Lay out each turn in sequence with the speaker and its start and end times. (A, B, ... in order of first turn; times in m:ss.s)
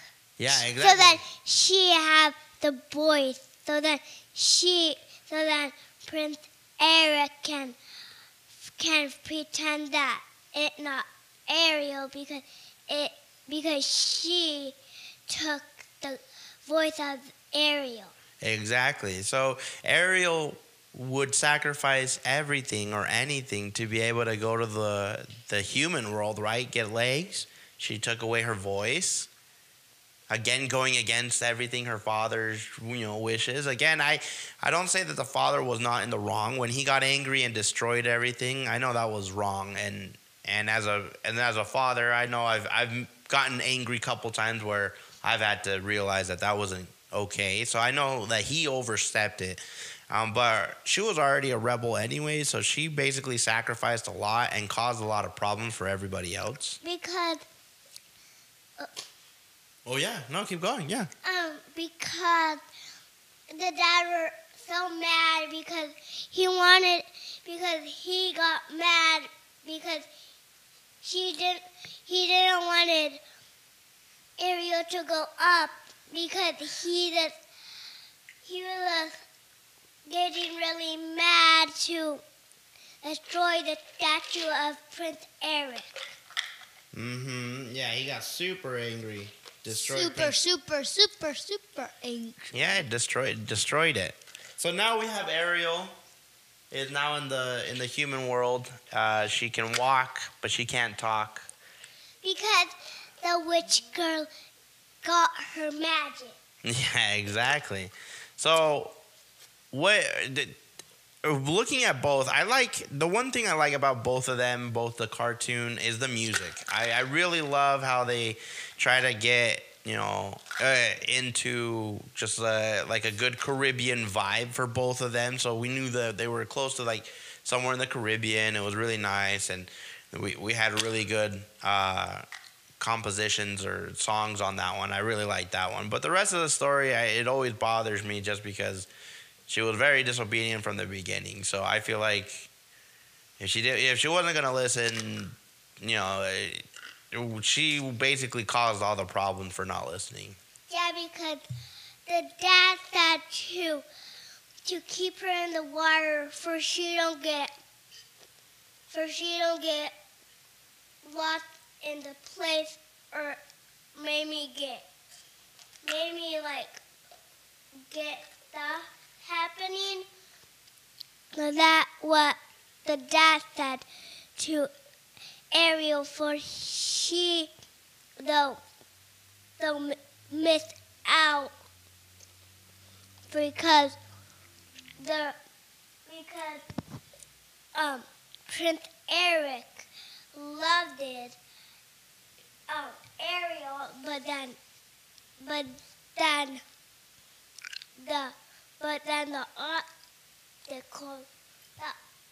0:00.4-0:01.2 A
0:00.5-0:07.8 B
0:08.8-0:14.8 B
0:15.3-0:18.1 B
0:18.4-0:29.3 A
0:30.3-0:56.8 A
0:56.8-0:57.4 B
0:59.8-1:01.1 A
1:01.2-1:02.6 B
1:03.5-1:10.1 B
1:11.0-1:13.2 B
1:14.4-1:17.4 B
1:18.4-1:19.1 B
1:20.1-1:22.2 B
1:23.0-1:25.9 B
1:26.9-1:30.4 A
1:29.7-1:32.5 C
1:32.5-1:36.0 A
1:36.7-1:41.5 A
1:42.2-1:44.3 B
1:45.0-1:46.4 B
1:46.6-1:49.0 A
1:49.7-1:50.6 A
1:51.2-2:12.2 A
2:12.8-2:18.9 A
2:19.5-2:22.5 A
2:23.4-2:30.4 A
2:30.7-2:31.4 B
2:32.1-2:33.8 B
2:34.6-2:37.5 B
2:38.9-2:39.9 B
2:41.0-2:43.4 B
2:43.9-2:44.8 B
2:45.8-2:46.8 B
2:47.8-2:50.1 B
2:51.3-2:53.8 B
2:54.4-2:54.7 B
2:55.5-2:57.5 B
2:58.2-2:58.6 B
2:59.6-3:01.5 B
3:03.3-3:04.0 B
3:05.0-3:05.3 B
3:06.1-3:06.6 B
3:07.8-3:11.4 B
3:12.7-3:14.6 B
3:15.4-3:16.6 B
3:18.0-3:19.8 B
3:20.7-3:22.0 B